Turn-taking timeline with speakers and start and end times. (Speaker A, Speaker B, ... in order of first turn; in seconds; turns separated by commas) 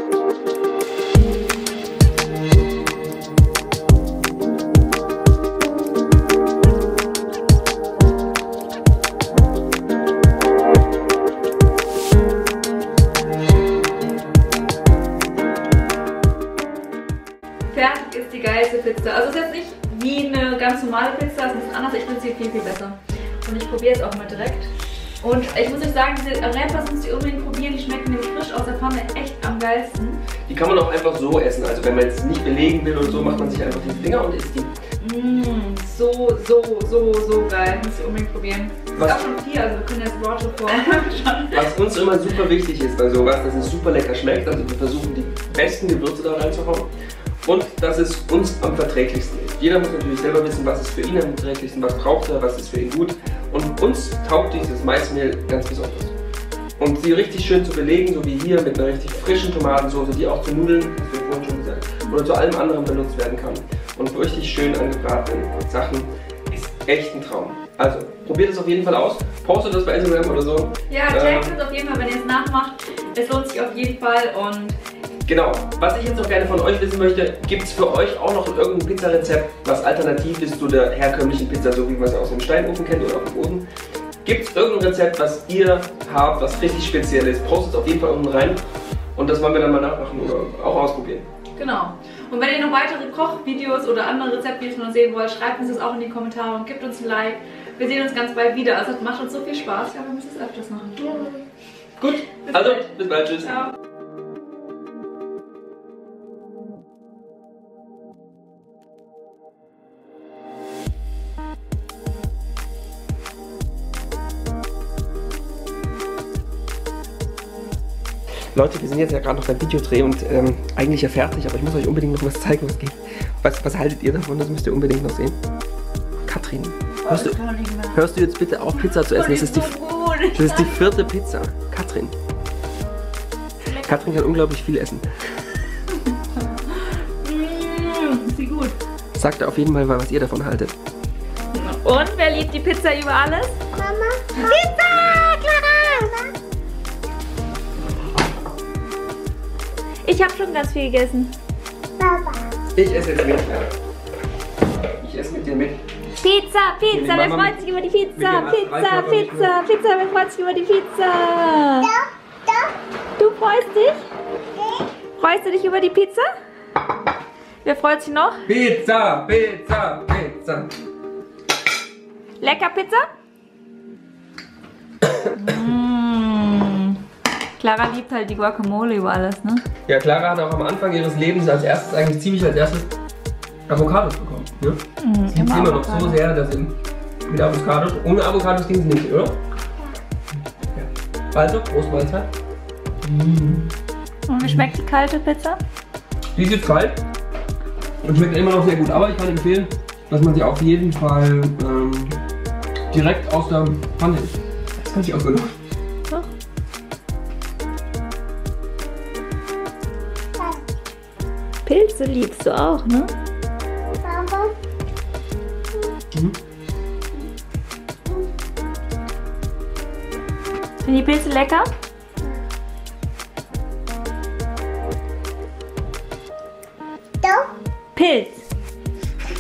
Speaker A: 17.7-30.2, Speaker B: 30.5-34.8, Speaker A: 35.0-41.7, Speaker B: 38.9-39.2, Speaker B: 41.5-46.9, Speaker B: 47.4-56.1, Speaker B: 56.8-71.5, Speaker A: 70.9-74.8, Speaker B: 75.3-83.7, Speaker B: 84.2-88.6, Speaker B: 89.2-91.3, Speaker A: 91.6-101.4, Speaker B: 102.0-103.7, Speaker A: 102.4-102.9, Speaker B: 118.5-125.4, Speaker B: 126.3-127.4, Speaker A: 127.0-128.0, Speaker B: 127.9-129.8, Speaker A: 128.8-130.8, Speaker B: 130.3-132.2, Speaker A: 133.6-134.0, Speaker B: 133.8-135.1, Speaker A: 135.9-138.8, Speaker B: 139.2-140.8, Speaker A: 141.5-143.6, Speaker C: 143.8-144.7, Speaker A: 144.4-146.1, Speaker C: 145.9-146.3, Speaker A: 150.0-151.3, Speaker C: 152.0-152.5, Speaker B: 152.8-153.7, Speaker B: 155.0-155.8, Speaker A: 156.2-161.9, Speaker B: 156.9-157.6, Speaker B: 158.2-159.6, Speaker C: 161.8-162.7, Speaker A: 163.2-164.1, Speaker A: 165.2-166.3, Speaker A: 167.6-168.4, Speaker B: 168.5-170.7, Speaker A: 172.4-173.1, Speaker A: 175.3-177.0, Speaker A: 177.6-179.7, Speaker B: 179.9-182.9, Speaker B: 183.7-186.8, Speaker A: 185.0-186.2, Speaker B: 187.3-189.4, Speaker B: 190.7-192.3, Speaker B: 193.0-193.7, Speaker A: 194.3-195.6, Speaker B: 194.4-194.7, Speaker B: 196.4-197.0, Speaker B: 198.0-202.2, Speaker B: 202.9-205.5, Speaker C: 210.4-210.6, Speaker A: 211.7-213.1, Speaker C: 214.0-214.6, Speaker A: 220.8-221.7, Speaker C: 227.2-227.5, Speaker A: 227.9-228.5